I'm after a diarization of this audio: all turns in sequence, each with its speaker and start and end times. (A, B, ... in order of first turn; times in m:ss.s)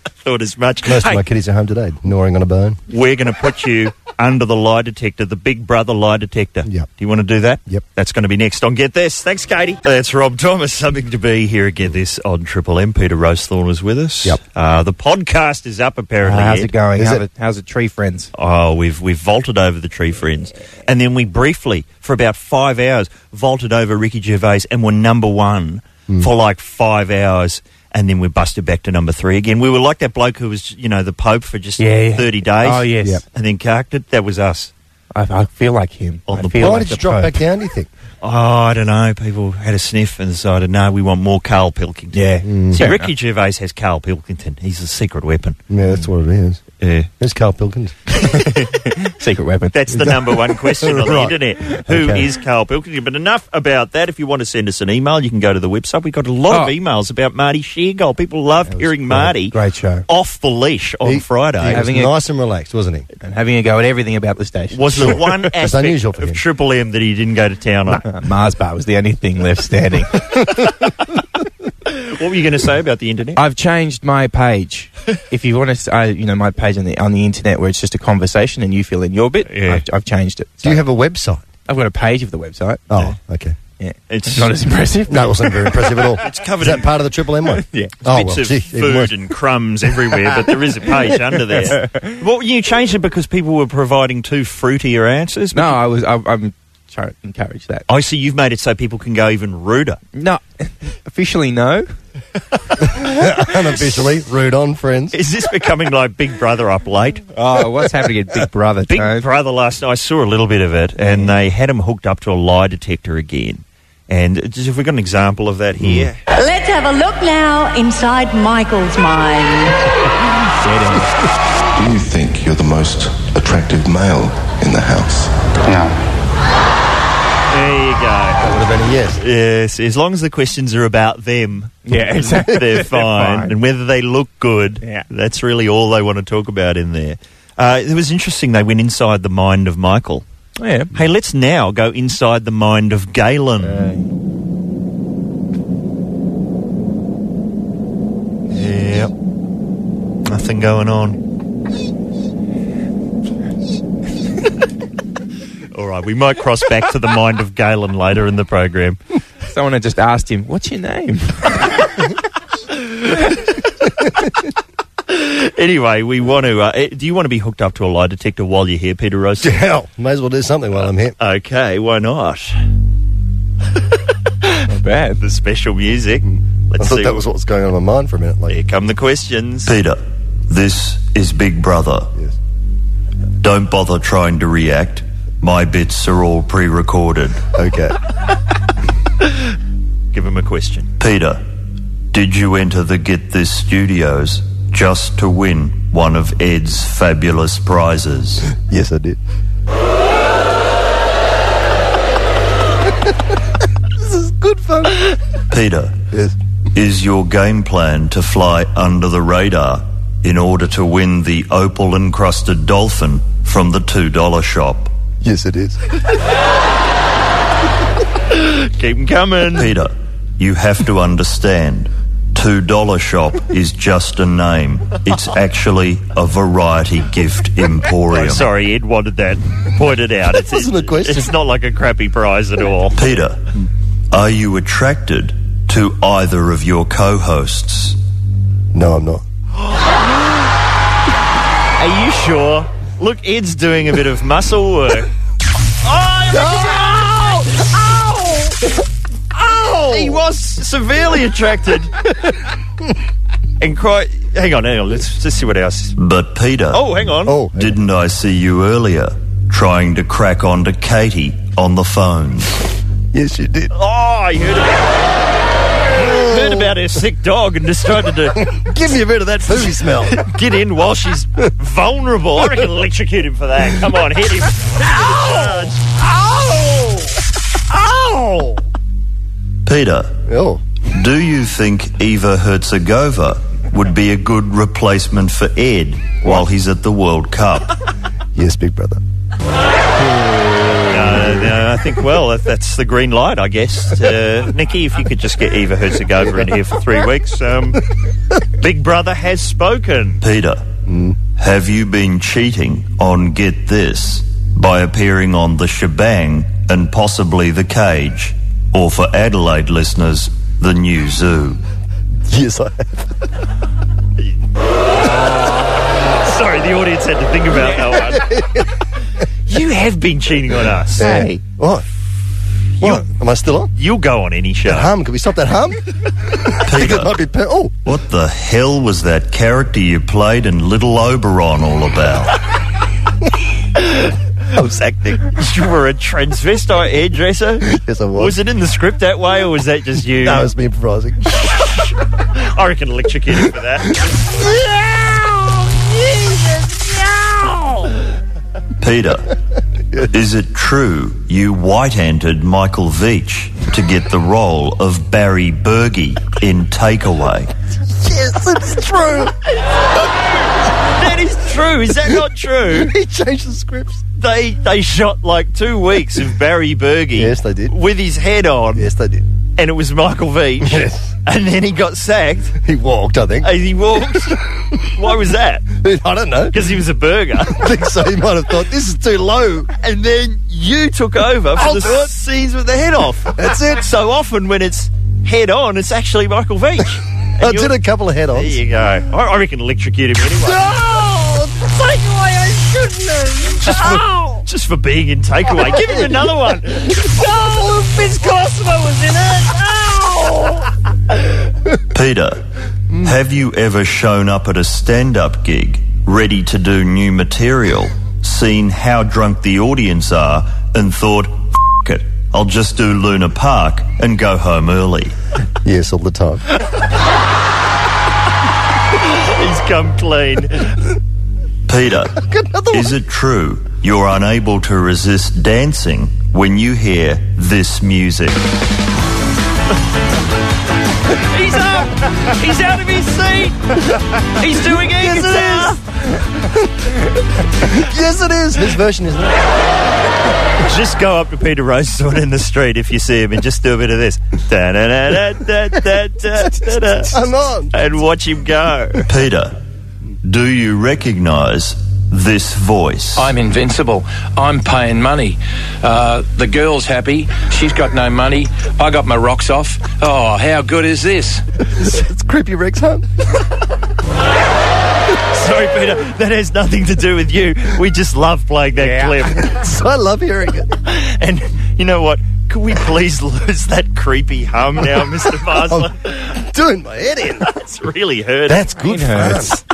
0:00.2-0:01.2 A
0:00.8-0:02.8 B
0:02.9-0:16.7 A
0:16.2-0:18.3 C
0:17.0-0:17.2 B
0:18.3-0:34.7 A
0:31.8-0:33.2 C
0:35.1-0:37.4 C
0:36.3-0:36.9 A
0:36.6-0:37.9 B
0:38.2-0:45.6 A
0:42.1-0:43.1 C
0:42.4-0:42.8 B
0:45.7-0:46.6 B
0:46.8-0:47.1 A
0:47.2-0:48.2 B
0:48.5-0:49.8 C
0:49.7-0:59.5 A
0:49.9-0:52.3 B
0:58.7-0:59.3 B
0:59.5-1:00.0 C
1:00.1-1:01.8 A
1:01.0-1:03.1 B
1:01.7-1:02.2 C
1:03.2-1:05.2 C
1:04.7-1:08.0 A
1:05.0-1:06.4 B
1:08.0-1:10.3 C
1:11.9-1:13.4 A
1:13.4-1:20.8 C
1:19.5-1:19.8 A
1:20.6-1:21.4 B
1:21.7-1:22.8 C
1:22.9-1:23.6 B
1:23.8-1:26.0 C
1:24.1-1:24.5 A
1:25.1-1:29.2 B
1:26.2-1:27.0 A
1:27.5-1:27.9 C
1:28.0-1:35.8 A
1:31.7-1:32.2 C
1:35.5-1:37.8 C
1:37.9-1:40.0 A
1:40.1-1:41.9 C
1:42.9-1:45.2 B
1:45.1-1:47.2 A
1:47.3-1:49.3 C
1:48.9-1:56.2 A
1:51.0-1:51.3 C
1:55.8-1:56.1 B
1:56.3-1:59.8 D
2:00.5-2:01.1 C
2:01.8-2:05.3 E
2:07.5-2:08.5 A
2:08.4-2:09.2 B
2:09.2-2:20.2 A
2:11.8-2:13.5 C
2:14.8-2:15.1 C
2:20.6-2:20.9 C
2:20.9-2:23.9 A
2:23.6-2:24.1 C
2:28.5-2:29.1 A
2:30.2-2:31.2 A
2:35.7-2:39.0 A
2:39.5-2:41.9 C
2:45.1-2:49.6 A
2:49.4-2:51.2 B
2:51.2-2:52.6 A
2:54.6-2:55.2 C
2:55.2-2:57.2 A
2:56.8-2:58.6 B
2:58.5-2:59.7 A
2:59.6-3:02.1 F
3:03.4-3:07.5 F
3:07.5-3:08.0 B
3:10.1-3:10.9 A
3:11.0-3:11.4 F
3:12.1-3:18.5 F
3:18.5-3:19.2 B
3:24.0-3:25.1 B
3:25.5-3:26.0 F
3:26.1-3:26.4 B
3:26.7-3:34.9 F
3:35.2-3:35.8 B
3:38.3-3:39.7 A
3:39.5-3:48.5 F
3:48.1-3:53.0 A
3:50.3-3:51.3 B
3:52.9-3:53.5 F
3:54.1-3:58.0 F
3:58.7-3:59.2 B
4:01.8-4:05.1 A
4:05.8-4:07.7 A
4:06.3-4:08.5 B
4:09.4-4:10.2 B
4:09.4-4:11.9 A
4:13.6-4:16.0 A
4:16.0-4:16.8 F
4:16.7-4:17.4 A
4:17.2-4:17.8 B
4:17.5-4:22.6 F
4:23.1-4:23.7 B
4:23.7-4:25.0 A
4:25.9-4:26.8 B
4:25.9-4:28.5 A
4:28.3-4:30.2 B
4:30.1-4:35.8 A
4:34.8-4:38.6 B
4:39.6-4:40.2 F
4:40.3-4:40.6 B
4:40.8-4:47.8 F
4:48.3-4:49.0 B
4:50.0-4:51.4 B
4:50.9-4:57.8 A
4:58.6-5:00.2 A
5:00.2-5:00.6 F
5:00.9-5:01.2 B
5:01.4-5:11.6 F
5:12.3-5:13.1 B
5:15.0-5:18.4 A
5:17.7-5:18.7 B
5:19.5-5:21.0 A
5:21.0-5:21.8 B
5:21.0-5:21.4 C
5:22.8-5:23.7 B
5:23.7-5:24.9 A
5:24.6-5:27.7 B
5:26.6-5:27.1 F
5:27.8-5:32.4 F
5:34.6-5:35.1 B
5:34.6-5:40.5 A
5:37.6-5:38.4 B
5:40.1-5:41.4 B
5:41.4-5:44.0 A
5:44.4-5:47.9 B
5:48.8-5:49.3 F
5:50.1-5:57.5 F
5:57.9-5:59.4 B
6:00.7-6:02.9 A
6:02.7-6:04.0 B
6:04.2-6:08.9 A
6:07.1-6:07.7 B
6:08.7-6:09.3 B
6:09.6-6:12.6 A
6:10.6-6:11.1 B
6:12.6-6:13.5 B
6:13.4-6:15.7 A
6:15.8-6:16.7 B
6:16.5-6:17.7 A
6:17.4-6:19.7 B
6:19.8-6:27.7 A
6:21.6-6:22.1 B
6:23.2-6:23.9 B
6:27.4-6:28.6 B
6:28.3-6:30.8 A
6:30.4-6:34.4 B
6:33.6-6:40.1 A
6:35.5-6:40.6 B
6:41.9-6:42.4 F
6:43.0-6:55.1 F
6:55.6-6:56.4 B
6:59.0-7:00.9 A
7:01.7-7:08.5 F
7:02.2-7:02.9 B
7:11.2-7:15.8 A
7:14.8-7:15.8 B
7:17.6-7:19.5 B
7:20.6-7:27.2 A
7:26.6-7:27.7 B
7:27.7-7:29.0 A
7:29.0-7:29.6 F
7:30.2-7:33.3 F
7:33.2-7:41.4 G
7:41.7-7:43.1 B
7:45.3-7:49.7 A
7:48.8-7:49.1 C
7:49.4-7:50.8 B
7:50.8-7:56.4 A
7:55.5-7:57.5 B
7:57.4-7:58.7 A
7:58.5-7:59.6 B
7:58.8-7:59.6 C